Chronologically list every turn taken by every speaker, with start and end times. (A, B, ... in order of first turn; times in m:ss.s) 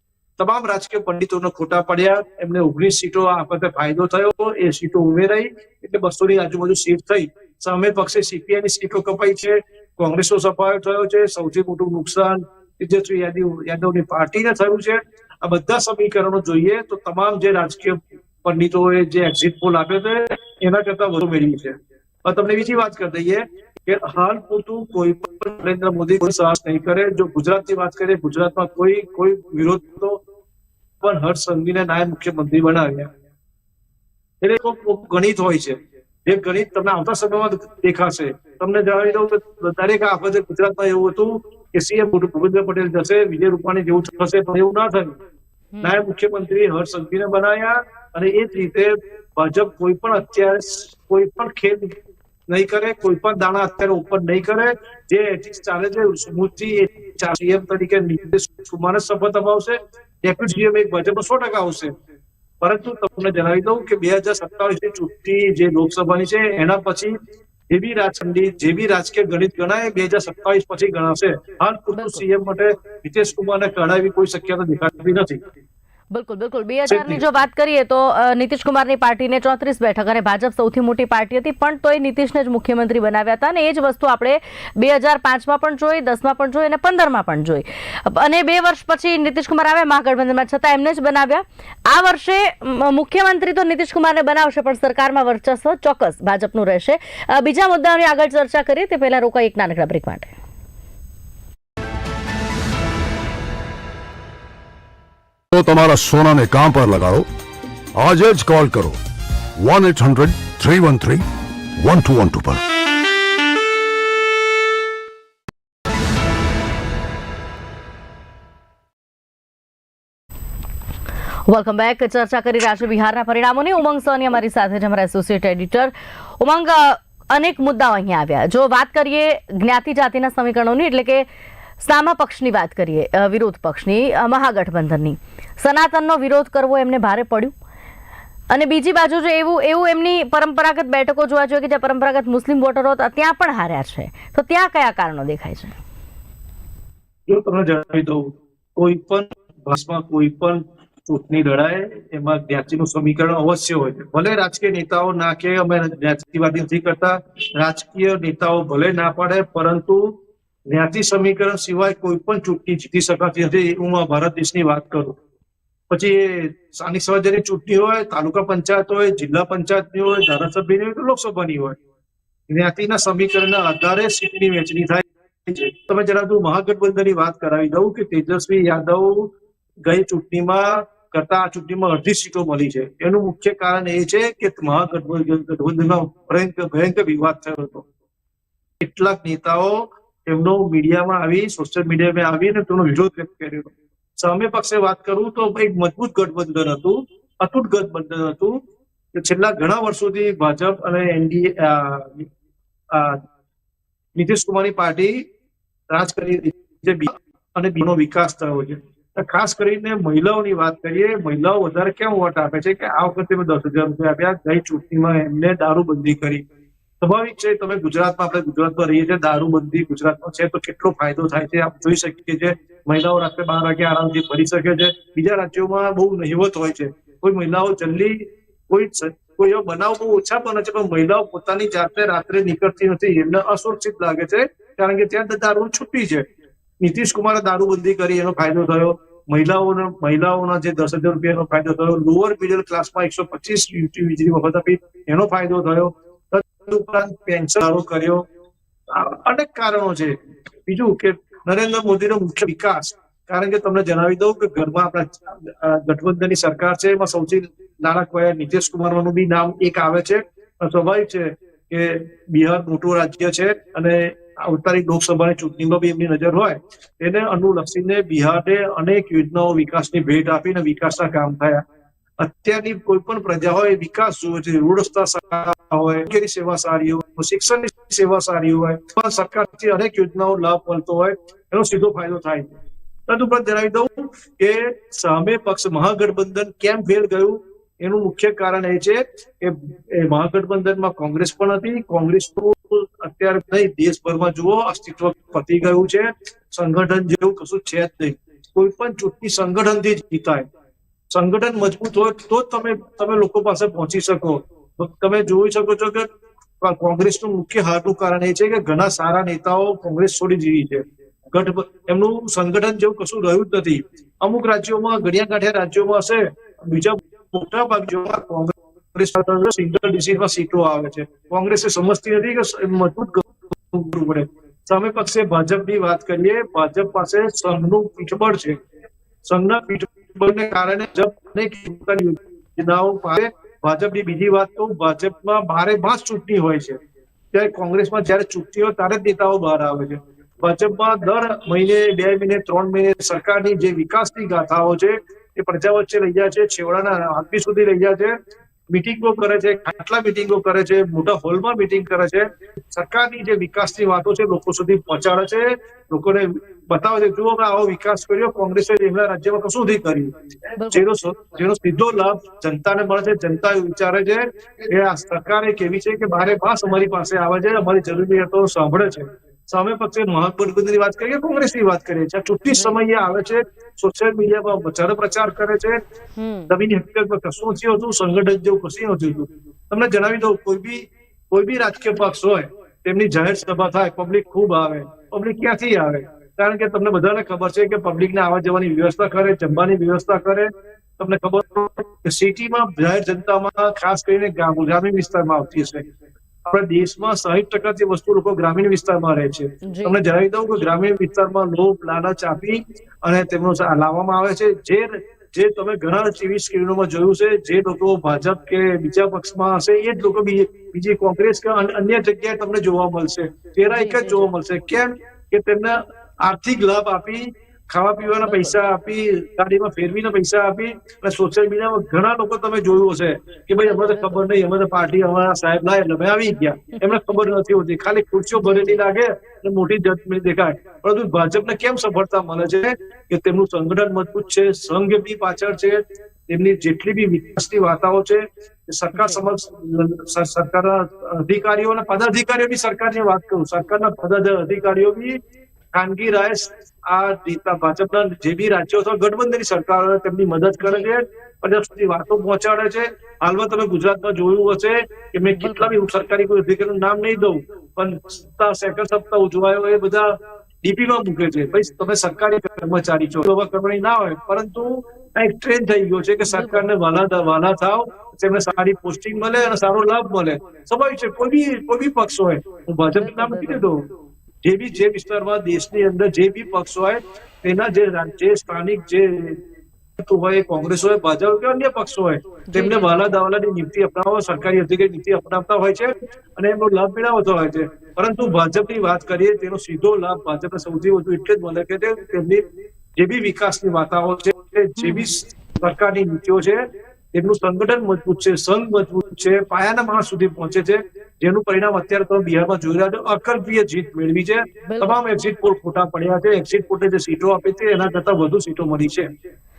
0:00.4-0:30.2 A
0:31.0-0:33.1 A
0:34.4-0:45.2 A
0:45.7-0:46.0 B
0:45.8-0:51.9 A
0:52.5-1:01.9 A
1:02.6-1:07.1 A
1:07.7-1:15.4 A
1:11.9-1:12.2 B
1:16.1-1:40.3 B
1:16.9-1:17.2 A
1:45.5-1:47.2 C
1:47.9-1:49.0 C
1:49.6-1:51.2 C
1:51.8-1:52.6 C
2:01.5-2:11.2 B
2:11.8-2:17.5 B
2:18.5-2:25.8 B
2:27.3-2:40.2 A
2:40.7-2:45.2 A
2:45.9-2:51.8 A
2:52.5-2:59.3 A
2:59.8-3:07.8 A
3:08.8-3:18.6 A
3:19.1-3:22.3 A
3:22.9-3:23.2 A
3:24.2-3:25.3 A
3:25.9-3:36.4 A
3:37.0-3:56.2 A
3:56.8-4:08.2 A
4:08.9-4:31.6 A
4:32.2-4:42.6 A
4:43.1-5:00.5 A
5:01.1-5:06.1 A
5:06.6-5:28.6 A
5:29.2-5:36.8 A
5:37.3-5:48.1 A
5:48.7-6:00.1 A
6:00.6-6:00.9 B
6:00.7-6:15.8 A
6:12.5-6:12.8 B
6:16.2-6:16.5 B
6:16.5-6:35.8 A
6:36.4-7:25.2 A
6:39.6-6:40.0 B
6:53.7-6:54.3 B
6:58.2-6:58.6 B
7:03.6-7:04.2 B
7:08.4-7:08.8 B
7:25.7-7:53.9 A
7:35.3-7:35.8 B
7:46.3-7:46.6 B
7:53.0-7:53.6 B
7:54.4-7:59.4 A
8:00.0-8:12.4 A
8:02.5-8:02.9 B
8:13.0-8:16.6 A
8:14.8-8:15.2 B
8:17.1-8:29.1 A
8:24.7-8:25.0 B